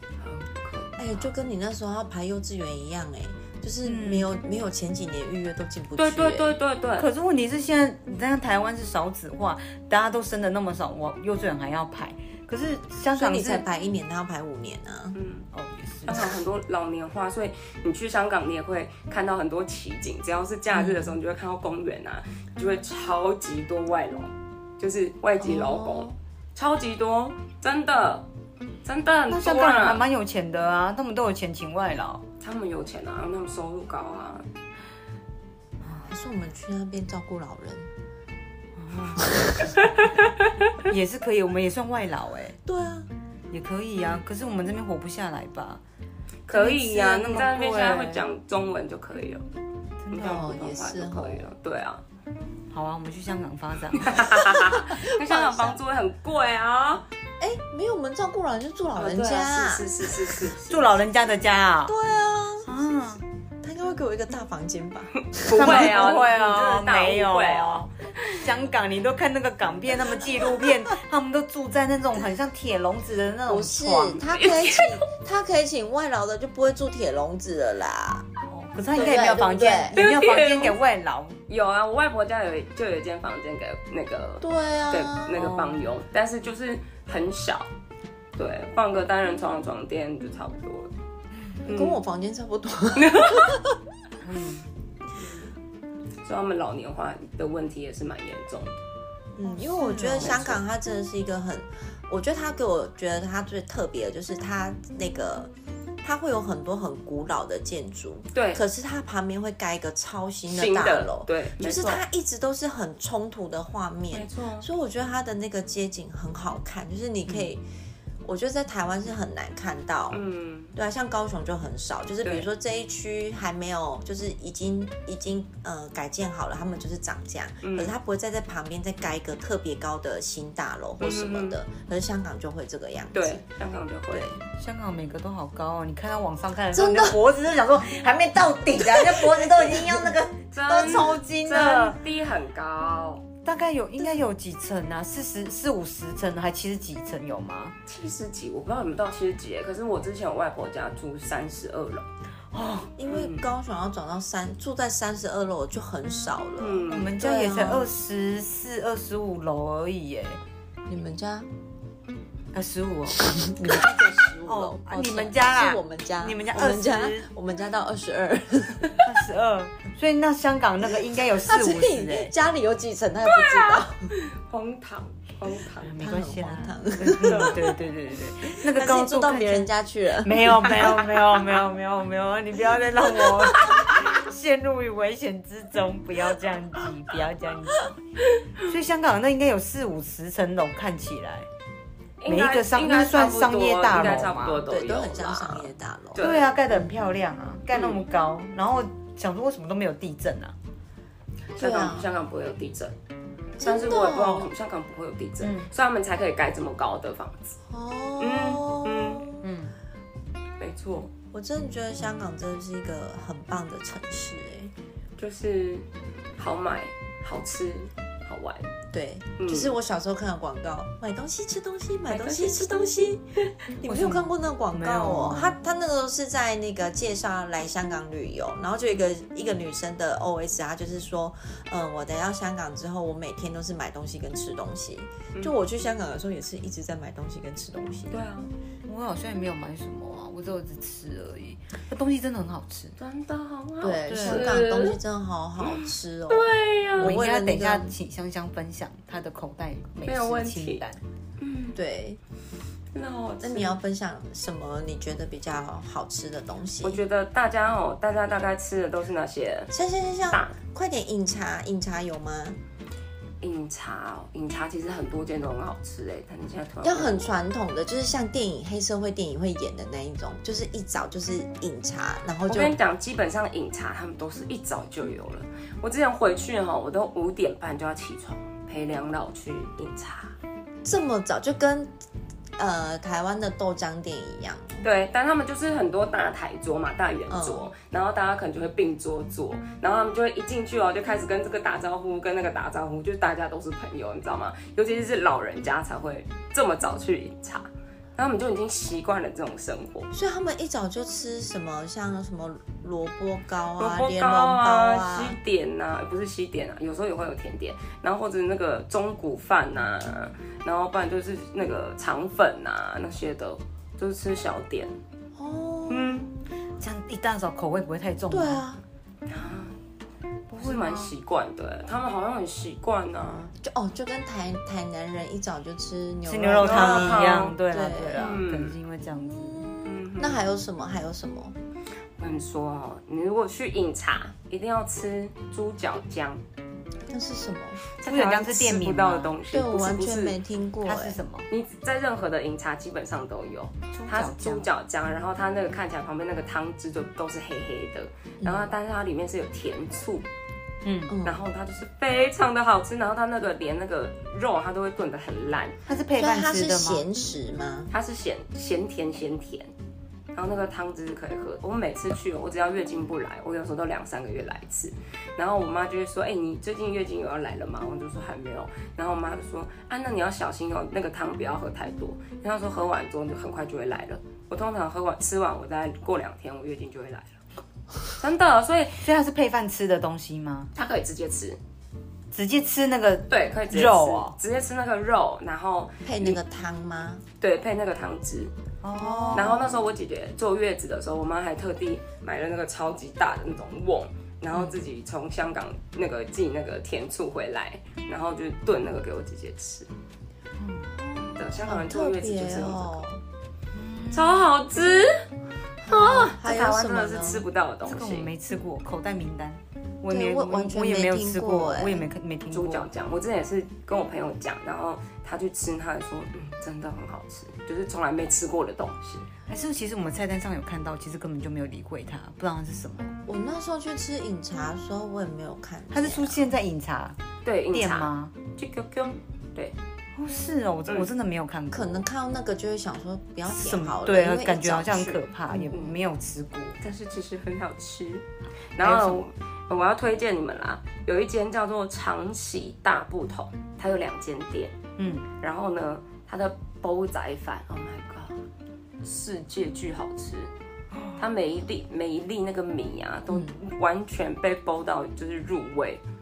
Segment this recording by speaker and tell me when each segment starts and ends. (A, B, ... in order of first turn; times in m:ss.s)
0:00.2-0:01.3 A
0:01.0-0:06.5 B
0:03.8-0:04.3 C
0:06.0-0:07.1 A
0:07.0-0:13.6 C
0:13.1-0:15.2 B
0:15.2-0:15.5 A
0:15.5-0:16.3 C
0:16.1-0:28.3 A
0:20.8-0:21.1 B
0:25.4-0:26.2 B
0:28.8-0:30.0 A
0:29.3-0:32.2 C
0:32.4-0:34.5 A
0:35.9-0:37.9 B
0:38.8-0:39.5 C
0:39.2-0:39.5 B
0:40.9-0:42.6 C
0:42.7-0:43.1 B
0:43.5-0:45.8 C
0:46.5-0:49.5 A
0:46.5-0:48.2 C
0:50.0-0:50.5 C
0:50.1-0:52.0 A
0:50.1-0:51.5 B
0:52.7-0:54.3 C
0:54.0-0:57.1 A
0:54.4-0:55.8 B
0:57.4-1:00.3 B
0:59.0-1:01.0 A
1:00.7-1:02.0 C
1:01.9-1:02.7 B
1:02.6-1:03.2 C
1:03.6-1:06.2 B
1:05.4-1:08.4 A
1:05.5-1:14.3 C
1:13.5-1:18.3 B
1:14.4-1:15.0 A
1:18.5-1:21.4 C
1:18.9-1:20.0 B
1:20.0-1:20.8 A
1:21.5-1:27.7 A
1:24.4-1:25.4 B
1:25.4-1:25.9 C
1:28.4-1:30.9 A
1:31.7-1:33.8 B
1:31.7-1:32.0 A
1:33.0-1:33.6 A
1:34.2-1:34.6 C
1:35.2-1:35.5 A
1:36.2-1:38.8 A
1:39.4-1:45.5 B
1:39.4-1:40.6 C
1:40.2-1:40.5 A
1:46.0-1:57.6 B
1:48.3-1:48.6 A
1:50.5-1:52.0 A
1:54.1-1:54.7 A
1:58.2-2:00.2 B
2:00.1-2:00.7 A
2:00.7-2:13.4 B
2:07.6-2:07.9 A
2:11.0-2:11.6 A
2:13.1-2:14.3 A
2:14.1-2:14.4 B
2:14.6-2:22.0 C
2:16.7-2:17.2 B
2:18.9-2:20.0 B
2:20.5-2:23.2 A
2:23.4-2:27.8 C
2:27.9-2:32.1 A
2:32.5-2:32.9 C
2:33.0-2:37.9 B
2:33.1-2:33.5 A
2:36.6-2:37.2 A
2:36.9-2:40.4 C
2:40.9-2:41.5 B
2:42.5-2:43.8 C
2:43.2-2:49.0 B
2:44.4-2:47.3 C
2:49.0-2:52.3 C
2:51.4-2:54.1 B
2:53.3-2:56.0 A
2:55.8-2:59.7 C
2:56.0-2:57.6 B
2:57.2-2:57.6 A
2:58.6-3:01.1 B
3:00.2-3:07.9 C
3:08.6-3:11.5 C
3:12.2-3:16.5 A
3:12.3-3:14.6 C
3:14.7-3:16.3 B
3:16.2-3:20.6 C
3:17.7-3:18.0 A
3:21.6-3:23.0 A
3:21.6-3:22.1 B
3:23.6-3:24.5 B
3:23.6-3:27.6 A
3:25.4-3:25.7 C
3:27.7-3:29.4 B
3:28.2-3:29.2 A
3:29.4-3:29.8 C
3:30.6-3:31.1 A
3:31.3-3:34.7 B
3:35.2-3:35.9 A
3:36.4-3:38.7 A
3:38.9-3:43.2 B
3:39.4-3:39.8 A
3:42.1-3:42.8 A
3:43.8-3:58.3 B
3:43.9-3:45.6 C
3:58.1-3:58.5 A
3:58.9-4:03.0 C
4:03.0-4:05.0 A
4:03.8-4:07.9 B
4:04.1-4:04.5 C
4:05.6-4:07.2 A
4:07.0-4:11.0 C
4:10.1-4:10.8 A
4:11.4-4:11.8 A
4:11.8-4:12.2 B
4:12.9-4:13.8 A
4:13.4-4:17.0 B
4:16.8-4:19.7 A
4:19.7-4:22.6 B
4:20.3-4:20.6 A
4:23.4-4:27.3 A
4:26.8-4:32.8 B
4:32.5-4:40.4 A
4:40.8-4:41.9 B
4:42.6-4:44.8 B
4:44.8-5:00.1 A
4:47.3-4:47.7 B
5:00.1-5:05.4 B
5:03.8-5:14.9 A
5:15.4-5:16.2 B
5:15.9-5:16.2 A
5:16.7-5:18.6 C
5:18.3-5:18.8 B
5:19.3-5:19.8 A
5:20.5-5:21.1 C
5:20.6-5:23.5 A
5:23.6-5:28.4 B
5:26.3-5:29.7 C
5:26.6-5:27.6 A
5:28.2-5:28.8 A
5:29.4-5:31.6 B
5:29.8-5:30.4 A
5:32.2-5:36.4 A
5:37.1-5:37.8 B
5:38.0-5:40.4 A
5:38.0-5:39.4 C
5:39.5-5:41.2 B
5:40.8-5:41.5 C
5:41.5-5:50.3 A
5:43.9-5:44.7 C
5:48.4-5:48.7 B
5:50.8-5:51.2 C
5:51.1-5:51.4 B
5:51.2-5:55.8 A
5:55.9-5:57.0 C
5:56.2-5:57.9 B
5:57.9-5:59.7 A
6:00.3-6:17.4 A
6:18.2-6:19.1 A
6:19.0-6:20.7 C
6:20.8-6:21.6 A
6:22.3-6:24.4 C
6:23.3-6:26.4 A
6:26.0-6:27.2 B
6:27.4-6:28.5 A
6:28.8-6:29.6 C
6:28.9-6:29.8 B
6:29.3-6:39.9 A
6:40.6-6:40.9 C
6:41.0-6:43.2 B
6:41.4-6:43.0 A
6:43.7-6:44.5 C
6:44.1-6:45.1 A
6:45.9-6:47.4 B
6:45.9-6:48.3 A
6:47.9-6:52.9 C
6:50.1-6:52.1 B
6:52.5-6:59.3 A
6:59.5-7:03.1 C
7:03.3-7:06.4 B
7:05.9-7:07.2 C
7:07.4-7:09.8 A
7:07.7-7:08.3 C
7:10.2-7:12.0 C
7:11.7-7:15.6 B
7:13.5-7:16.8 C
7:14.9-7:16.0 A
7:16.8-7:24.8 A
7:18.8-7:19.2 C
7:25.0-7:25.3 C
7:25.4-7:28.4 A
7:29.0-7:30.5 A
7:30.9-7:31.3 C
7:31.2-7:36.0 A